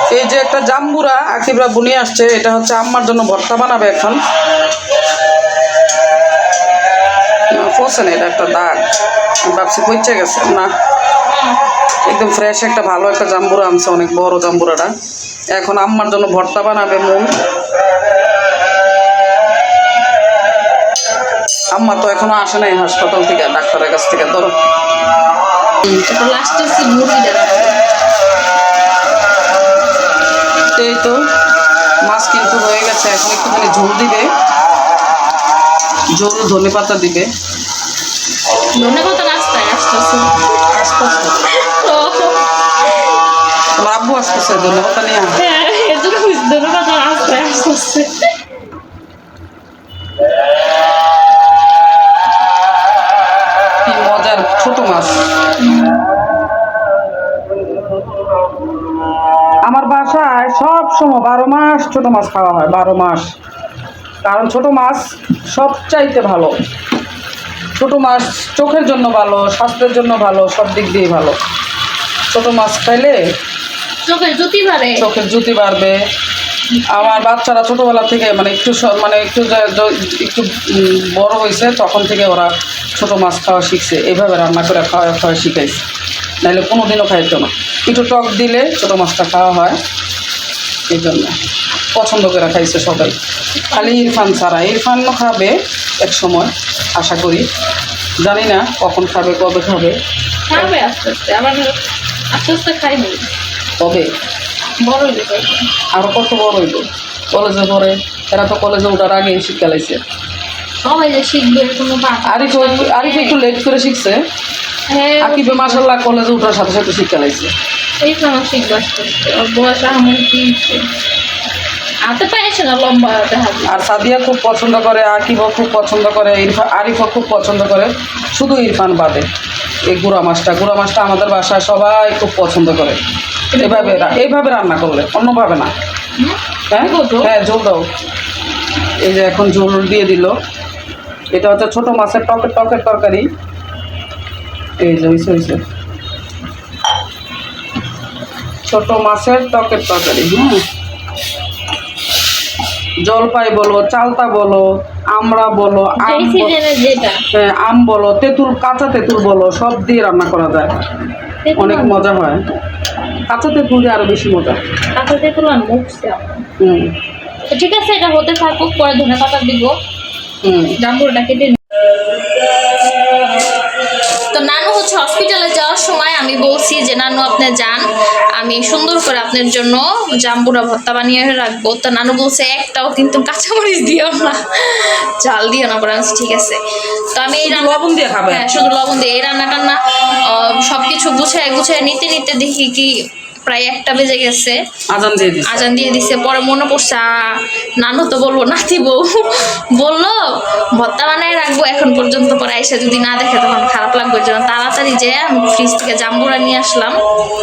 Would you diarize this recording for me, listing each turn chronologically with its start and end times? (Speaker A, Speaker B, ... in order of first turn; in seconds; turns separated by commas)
Speaker A: 0.1-4.2, Speaker A: 7.5-8.8, Speaker A: 9.4-10.7, Speaker B: 11.3-11.6, Speaker A: 12.1-14.9, Speaker A: 15.5-17.3, Speaker A: 21.7-24.5, Speaker B: 25.9-27.8, Speaker A: 30.8-31.2, Speaker A: 32.0-34.3, Speaker A: 36.1-37.3, Speaker B: 38.5-40.5, Speaker A: 40.7-41.4, Speaker B: 41.5-42.4, Speaker A: 43.8-45.4, Speaker B: 45.4-48.3, Speaker A: 53.9-55.2, Speaker B: 55.6-56.0, Speaker A: 59.6-63.3, Speaker A: 64.2-66.6, Speaker A: 67.8-71.4, Speaker A: 72.3-73.2, Speaker B: 74.0-75.0, Speaker A: 75.0-76.0, Speaker B: 76.8-77.2, Speaker A: 76.9-85.8, Speaker A: 86.4-89.8, Speaker A: 90.9-91.4, Speaker A: 91.9-93.2, Speaker B: 93.5-94.4, Speaker A: 93.7-97.5, Speaker A: 98.2-100.0, Speaker B: 100.5-101.8, Speaker B: 102.3-103.3, Speaker A: 103.8-104.1, Speaker B: 104.8-105.7, Speaker A: 105.9-110.0, Speaker B: 110.8-113.4, Speaker A: 112.2-114.2, Speaker B: 114.9-115.8, Speaker A: 115.2-117.5, Speaker B: 118.0-120.8, Speaker B: 122.0-123.9, Speaker A: 123.7-129.3, Speaker A: 129.9-133.0, Speaker B: 133.5-134.2, Speaker A: 133.6-135.7, Speaker B: 136.2-137.3, Speaker A: 136.7-137.8, Speaker A: 139.0-140.3, Speaker A: 141.3-143.3, Speaker A: 144.8-145.6, Speaker A: 148.7-150.6, Speaker A: 153.0-156.6, Speaker B: 156.0-157.2, Speaker A: 157.3-160.8, Speaker B: 161.4-162.1, Speaker A: 161.6-162.4, Speaker A: 163.3-164.6, Speaker B: 164.9-166.4, Speaker A: 166.6-166.9, Speaker B: 167.5-169.8, Speaker A: 170.4-170.8, Speaker B: 170.8-171.6, Speaker B: 174.3-186.6, Speaker B: 187.1-189.8, Speaker A: 187.4-188.5, Speaker B: 190.3-192.9, Speaker B: 193.5-194.6, Speaker A: 194.9-195.6, Speaker B: 195.5-200.2, Speaker B: 200.8-207.0